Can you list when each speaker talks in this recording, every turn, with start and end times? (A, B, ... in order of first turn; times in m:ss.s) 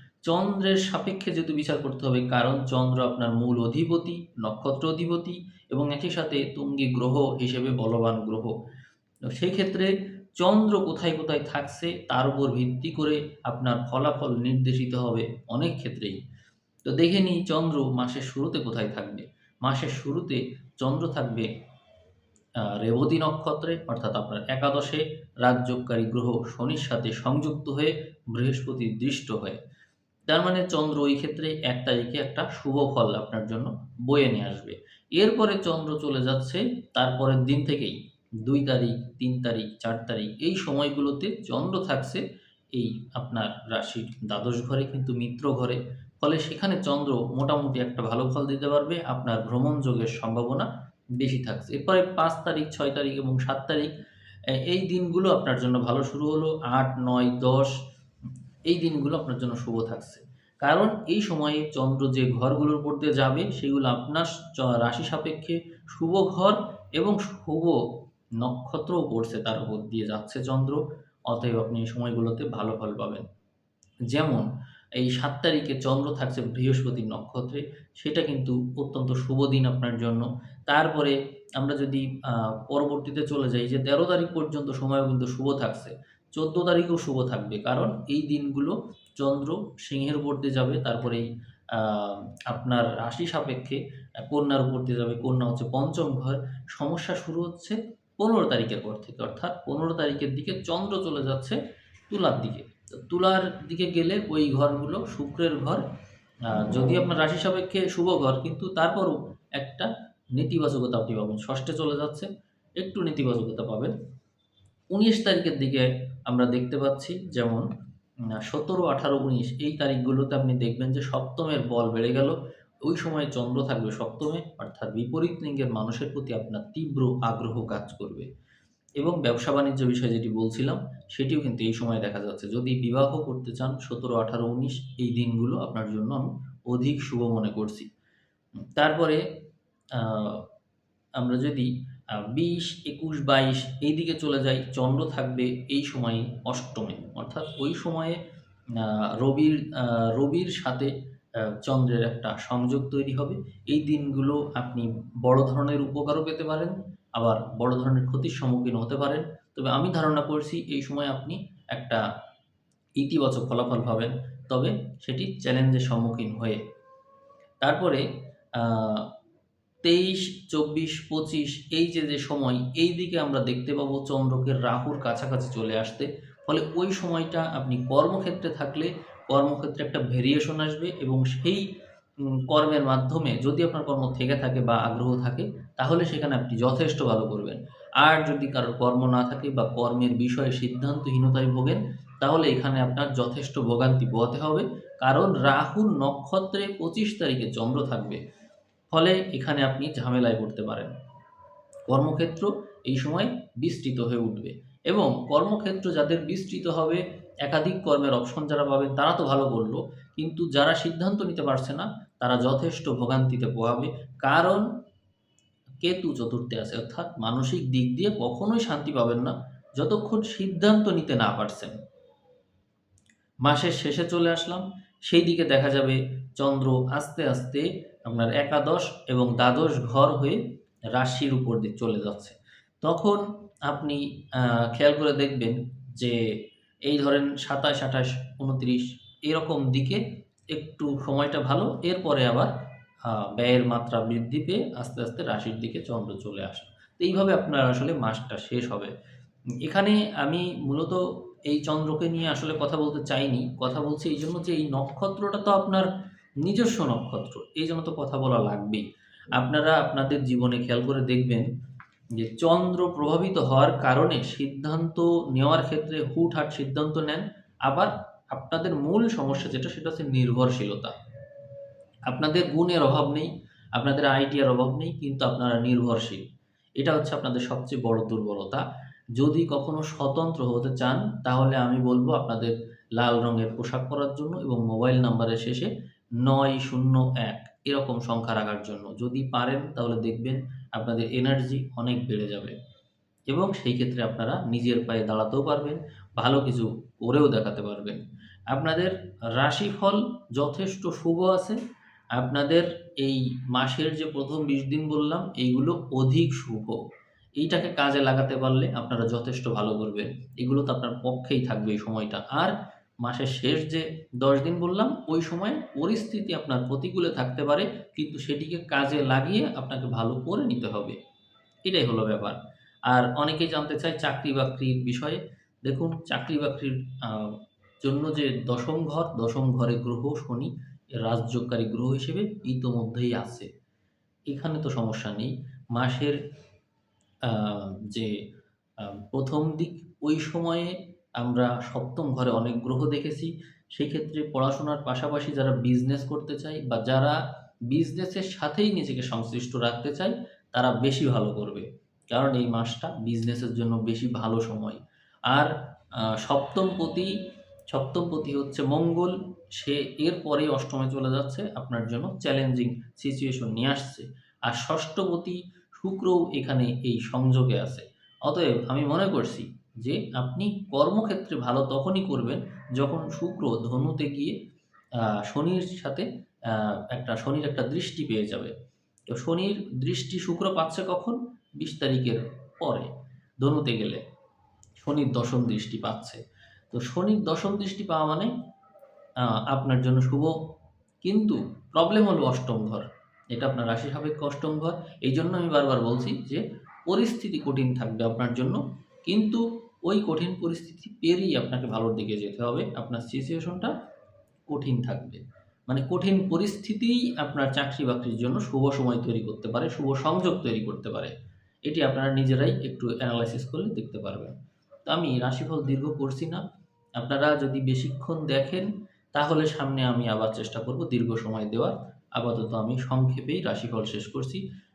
0:00.2-0:08.5 A
0:09.3-0:16.2 A
0:16.9-0:21.5 A
0:22.7-0:29.6 A
0:30.3-0:42.2 A
0:42.7-0:50.7 A
0:51.2-0:53.9 A
0:54.6-0:57.8 A
0:58.7-1:07.8 A
1:08.4-1:13.2 A
1:14.1-1:14.5 A
1:15.0-1:41.6 A
1:42.1-1:45.8 A
1:46.5-1:52.3 A
1:52.8-1:53.9 A
1:54.9-1:57.7 A
1:58.4-2:08.3 A
2:09.0-2:17.9 A
2:18.8-2:19.2 A
2:19.9-2:20.5 A
2:21.2-2:28.2 A
2:28.8-2:30.9 A
2:31.6-2:42.0 A
2:43.0-2:46.6 A
2:47.6-2:48.0 A
2:48.6-2:49.1 A
2:49.8-3:01.6 A
3:02.5-3:18.2 A
3:18.9-3:20.9 A
3:21.9-3:34.6 A
3:35.8-3:41.7 A
3:43.4-3:50.4 A
3:51.0-3:56.2 A
3:56.9-4:02.5 A
4:03.0-4:08.9 A
4:09.6-4:15.9 A
4:16.4-4:21.5 A
4:22.2-4:31.0 A
4:32.1-4:36.2 A
4:36.8-4:38.6 A
4:39.2-4:45.7 A
4:46.2-4:52.6 A
4:53.3-5:01.6 A
5:02.2-5:06.8 A
5:07.4-5:21.0 A
5:21.6-5:33.5 A
5:34.3-5:36.2 A
5:37.3-5:38.1 A
5:38.8-5:47.2 A
5:47.7-5:57.2 A
5:57.7-6:14.4 A
6:15.0-6:18.5 A
6:19.1-6:22.9 A
6:23.4-6:24.0 A
6:24.8-6:26.2 A
6:26.7-6:28.3 A
6:29.2-6:30.4 A
6:31.0-6:43.7 A
6:44.5-6:51.1 A
6:51.7-6:54.4 A
6:54.9-6:56.4 A
6:57.0-7:04.4 A